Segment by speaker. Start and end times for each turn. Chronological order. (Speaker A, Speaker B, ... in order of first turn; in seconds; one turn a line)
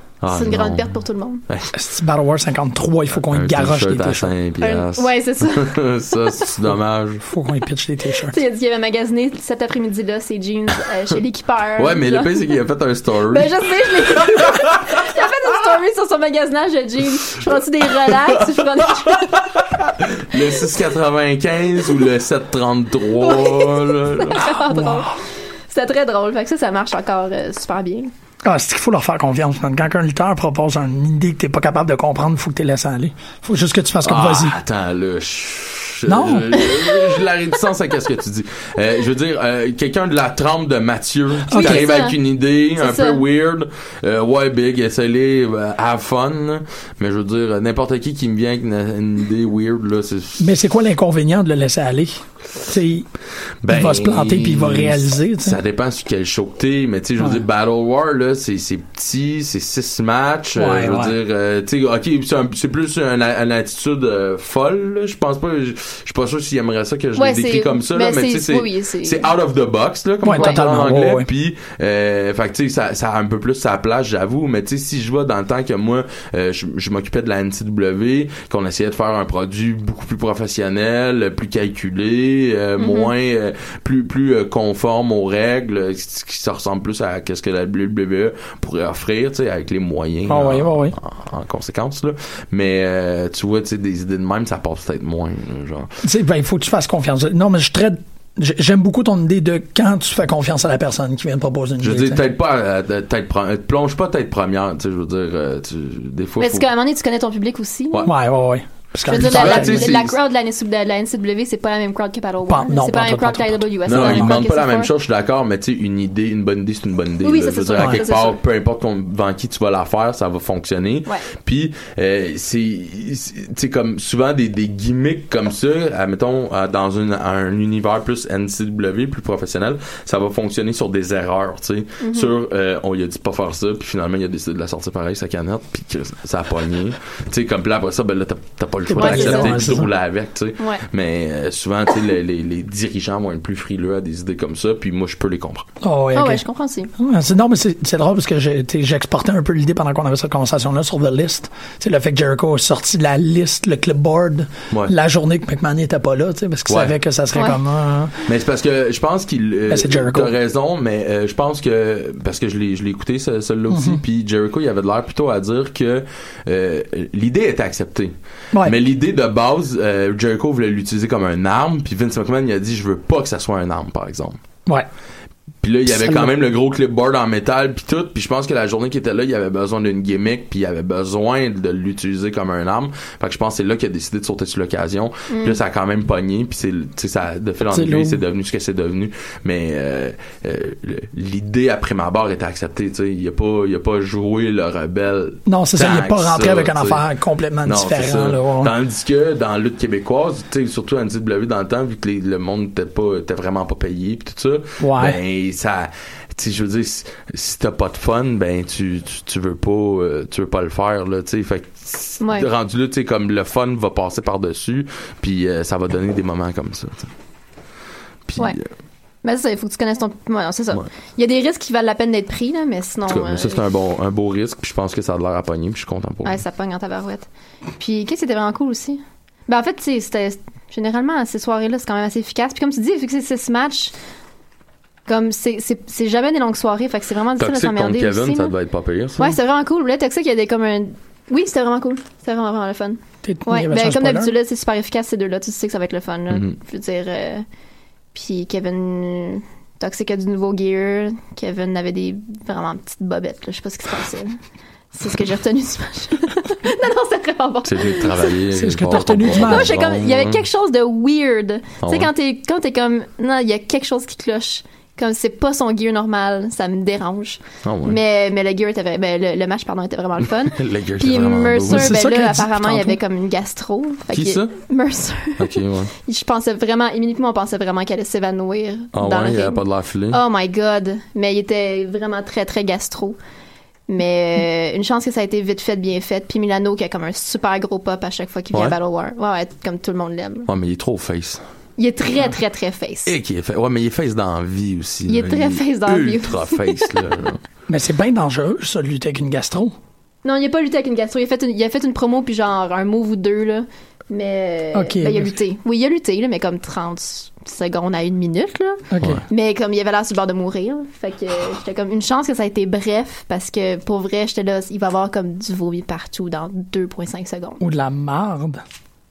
Speaker A: 0.2-0.9
Speaker B: 0.3-1.4
Speaker C: 1.7-4.3
Speaker A: 3.3-7.3
Speaker B: 4.6-5.8
Speaker C: 7.3-8.4
Speaker B: 8.3-12.4
Speaker A: 11.8-14.6
Speaker B: 13.3-19.5
Speaker A: 18.1-24.5
Speaker B: 23.2-28.1
Speaker C: 24.6-25.1
Speaker C: 28.4-34.6
Speaker A: 34.0-50.5
Speaker C: 36.1-36.6
Speaker C: 41.5-41.9
Speaker B: 41.5-42.2
Speaker B: 42.8-43.2
Speaker C: 50.4-53.1
Speaker A: 53.6-95.9
Speaker C: 53.7-55.6
Speaker C: 60.5-61.2
Speaker B: 67.2-69.3
Speaker C: 70.2-71.3
Speaker B: 82.8-83.1
Speaker C: 90.3-91.0
Speaker C: 96.0-102.2
Speaker A: 101.8-106.7
Speaker B: 106.4-108.1
Speaker C: 108.0-109.9
Speaker B: 109.1-114.9
Speaker A: 109.1-110.1
Speaker C: 112.5-114.4
Speaker A: 113.9-145.7
Speaker B: 117.2-118.4
Speaker C: 117.7-118.0
Speaker B: 132.0-132.3
Speaker C: 138.9-139.9
Speaker B: 138.9-139.8
Speaker C: 145.8-146.4
Speaker B: 146.2-146.9
Speaker C: 147.0-158.3
Speaker A: 156.7-157.0
Speaker B: 157.3-157.6
Speaker A: 158.2-174.4
Speaker C: 159.7-160.3
Speaker C: 163.7-164.0
Speaker A: 175.6-197.0
Speaker C: 175.9-176.3
Speaker B: 185.3-185.6
Speaker C: 187.7-188.2
Speaker C: 195.5-198.7
Speaker A: 197.6-217.1
Speaker C: 204.8-205.2
Speaker B: 212.2-212.5
Speaker A: 218.3-218.7
Speaker B: 219.2-223.6
Speaker A: 223.1-226.4
Speaker B: 226.2-233.9
Speaker B: 235.1-238.5
Speaker A: 237.4-239.4
Speaker B: 239.2-247.4
Speaker C: 243.2-244.3
Speaker A: 246.3-246.6
Speaker B: 248.1-254.4
Speaker B: 254.9-258.3
Speaker A: 257.6-260.4
Speaker C: 258.5-259.7
Speaker B: 259.3-283.2
Speaker A: 261.8-262.1
Speaker A: 267.6-268.0
Speaker A: 270.4-272.0
Speaker C: 271.7-273.0
Speaker A: 274.1-274.5
Speaker A: 275.4-275.9
Speaker A: 278.9-280.2
Speaker B: 283.9-290.5
Speaker A: 290.5-291.4
Speaker B: 291.8-293.1
Speaker A: 293.1-297.4
Speaker B: 295.1-296.9
Speaker C: 297.7-299.7
Speaker B: 300.2-317.6
Speaker C: 304.7-305.3
Speaker C: 308.9-309.2
Speaker C: 317.6-318.6